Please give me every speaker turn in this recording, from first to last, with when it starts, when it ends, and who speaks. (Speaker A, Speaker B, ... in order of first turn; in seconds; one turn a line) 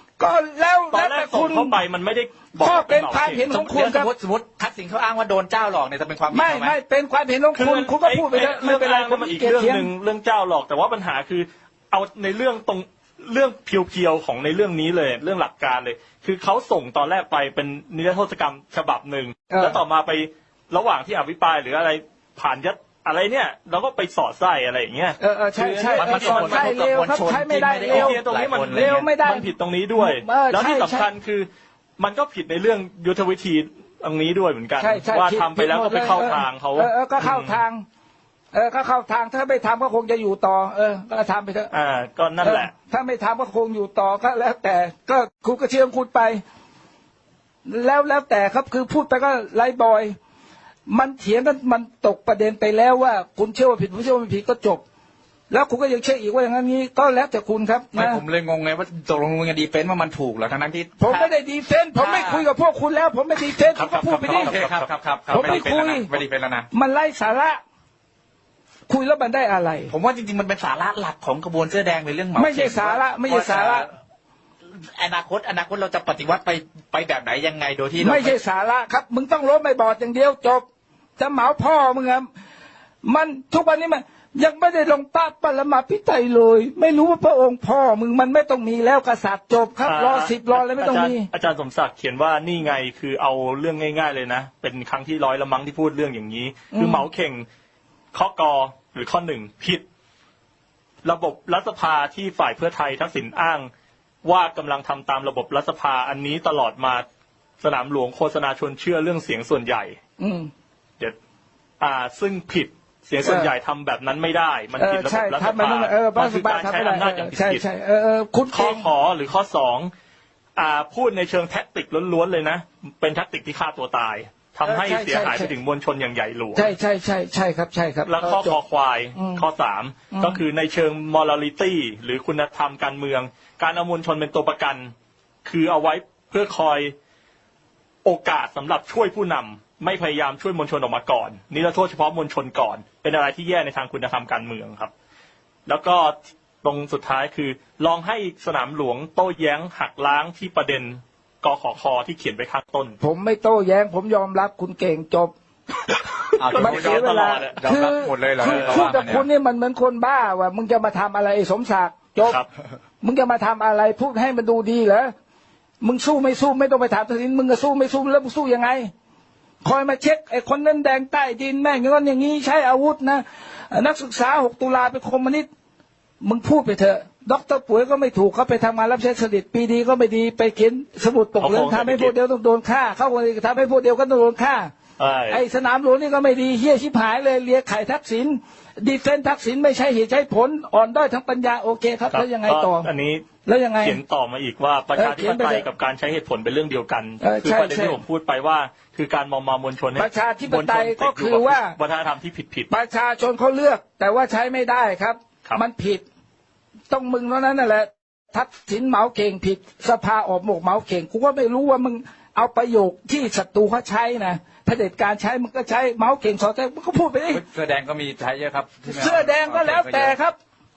Speaker A: 0.2-1.8
Speaker B: 0.9-3.5
Speaker A: 2.6-4.1
Speaker C: 3.5-6.7
Speaker A: 6.3-9.9
Speaker B: 7.5-25.2
Speaker A: 19.5-19.8
Speaker A: 25.2-28.2
Speaker C: 25.6-29.1
Speaker B: 25.8-26.8
Speaker B: 27.9-37.6
Speaker A: 28.7-31.1
Speaker A: 34.8-37.8
Speaker A: 38.5-41.7
Speaker B: 41.7-42.7
Speaker A: 42.4-46.4
Speaker A: 47.6-50.1
Speaker A: 50.9-54.8
Speaker A: 55.5-58.2
Speaker C: 57.9-61.3
Speaker A: 61.0-64.5
Speaker C: 62.0-62.5
Speaker B: 63.7-65.7
Speaker C: 64.3-66.7
Speaker A: 65.3-66.1
Speaker A: 66.7-67.6
Speaker A: 68.9-69.9
Speaker C: 69.9-73.9
Speaker A: 72.3-73.8
Speaker C: 75.0-78.3
Speaker A: 78.0-80.6
Speaker A: 81.2-82.3
Speaker A: 83.0-91.3
Speaker B: 89.8-97.5
Speaker A: 96.7-97.1
Speaker B: 98.1-99.8
Speaker B: 101.0-103.7
Speaker B: 104.2-107.0
Speaker B: 107.6-110.0
Speaker A: 110.2-110.5
Speaker B: 111.8-117.6
Speaker A: 113.2-113.5
Speaker A: 114.8-118.9
Speaker B: 118.5-119.9
Speaker B: 120.5-126.7
Speaker A: 124.6-125.5
Speaker A: 126.5-128.6
Speaker B: 128.1-134.9
Speaker A: 129.1-129.4
Speaker A: 130.1-130.4
Speaker B: 135.4-136.9
Speaker B: 138.0-144.9
Speaker B: 145.7-153.0
Speaker A: 153.0-155.3
Speaker C: 156.4-159.2
Speaker B: 156.4-157.6
Speaker A: 156.5-162.4
Speaker B: 158.4-159.0
Speaker A: 163.0-165.1
Speaker A: 165.8-168.9
Speaker A: 169.6-175.5
Speaker A: 176.2-184.7
Speaker B: 181.4-182.1
Speaker B: 185.0-185.4
Speaker A: 185.3-192.9
Speaker B: 192.1-193.3
Speaker A: 193.4-194.0
Speaker B: 193.8-202.7
Speaker A: 194.9-195.6
Speaker A: 197.2-198.0
Speaker A: 199.9-201.8
Speaker A: 202.7-206.0
Speaker A: 206.9-217.4
Speaker C: 217.3-220.1
Speaker A: 218.9-220.3